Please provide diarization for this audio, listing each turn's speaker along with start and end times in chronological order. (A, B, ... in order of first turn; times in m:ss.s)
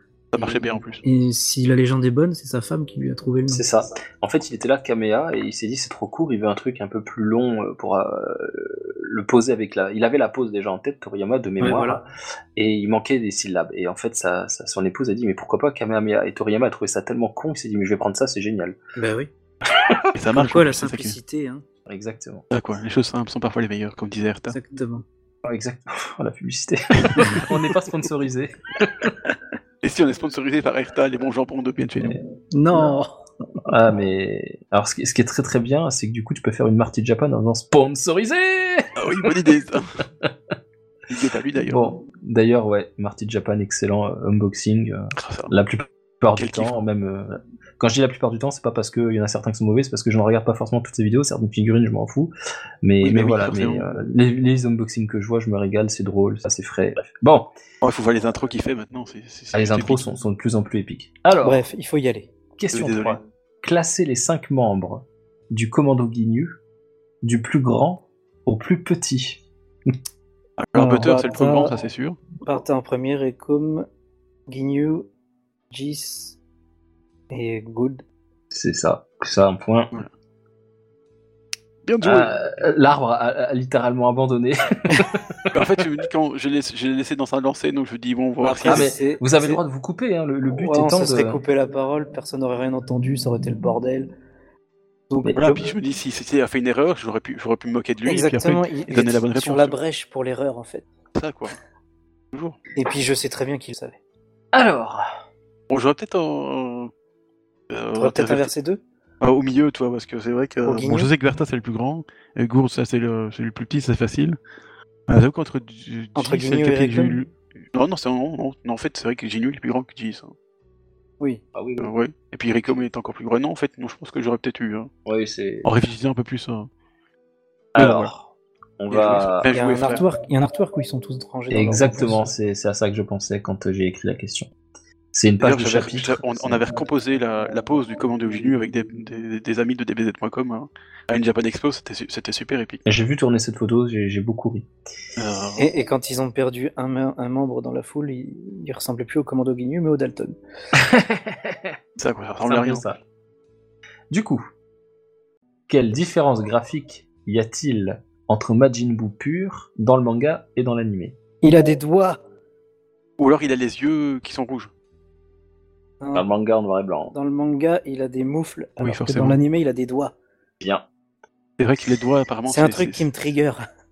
0:00.3-0:01.0 A
0:00.4-0:03.6 B
0:03.5-0:12.0 C
0:11.6-0:12.0 B
0:12.6-0:18.8 C
0:19.0-0:19.3 B
0:19.7-0:20.0 C
0:20.2-0:21.2 A
0:20.3-0:21.6 B
0:21.9-0:22.4 C
0:22.5-0:24.6 A
0:24.5-0:25.0 B
0:25.4-0:29.2 C
0:27.0-0:27.5 A
0:29.8-0:32.2 A
0:32.5-0:33.2 B
0:33.6-0:39.4 C
0:39.0-0:40.0 A
0:41.1-0:41.9 A
0:41.6-0:52.3 C
0:45.2-0:45.5 A
0:46.4-0:46.8 A
0:52.8-0:57.5 C
0:53.0-0:53.9 A
0:57.8-1:00.0 A
0:59.5-1:01.6 C
1:01.4-1:02.3 B
1:02.6-1:06.6 C
1:02.7-1:03.2 A
1:07.2-1:09.9 C
1:10.6-1:12.2 A
1:10.8-1:11.8 B
1:12.4-1:13.9 B
1:14.5-1:15.1 B
1:15.7-1:16.4 B
1:17.3-1:18.0 B
1:18.5-1:19.9 C
1:21.8-1:22.4 A
1:22.0-1:25.8 C
1:25.5-1:28.9 A
1:28.4-1:29.6 B
1:28.7-1:31.4 C
1:30.6-1:34.1 B
1:35.1-1:35.6 B
1:35.2-1:35.6 C
1:35.4-1:39.8 A
1:38.0-1:40.9 B
1:41.2-1:41.6 A
1:42.3-1:42.6 A
1:42.8-1:44.0 B
1:44.5-1:45.0 C
1:45.7-1:46.9 A
1:47.7-1:48.5 A
1:48.0-1:48.8 B
1:49.2-1:54.4 A
1:50.6-1:51.1 B
1:55.1-2:00.3 A
1:56.2-1:57.2 B
2:01.5-2:01.9 C
2:01.8-2:04.9 A
2:05.1-2:05.7 C
2:05.6-2:06.7 A
2:07.8-2:09.5 C
2:07.8-2:08.1 A
2:08.9-2:10.0 A
2:09.5-2:12.3 B
2:11.5-2:14.5 C
2:15.1-2:16.6 C
2:15.4-2:22.8 A
2:22.9-2:24.7 C
2:25.2-2:25.7 A
2:25.6-2:30.4 B
2:30.8-2:31.7 C
2:32.0-2:32.8 A
2:32.4-2:33.0 C
2:34.1-2:34.4 C
2:35.7-2:41.2 C
2:41.4-2:42.2 B
2:43.2-2:44.7 A
2:46.0-2:46.3 B
2:46.1-2:47.1 C
2:47.1-2:50.1 B
2:48.8-2:49.4 A
2:51.6-2:53.1 A
2:52.5-2:53.6 B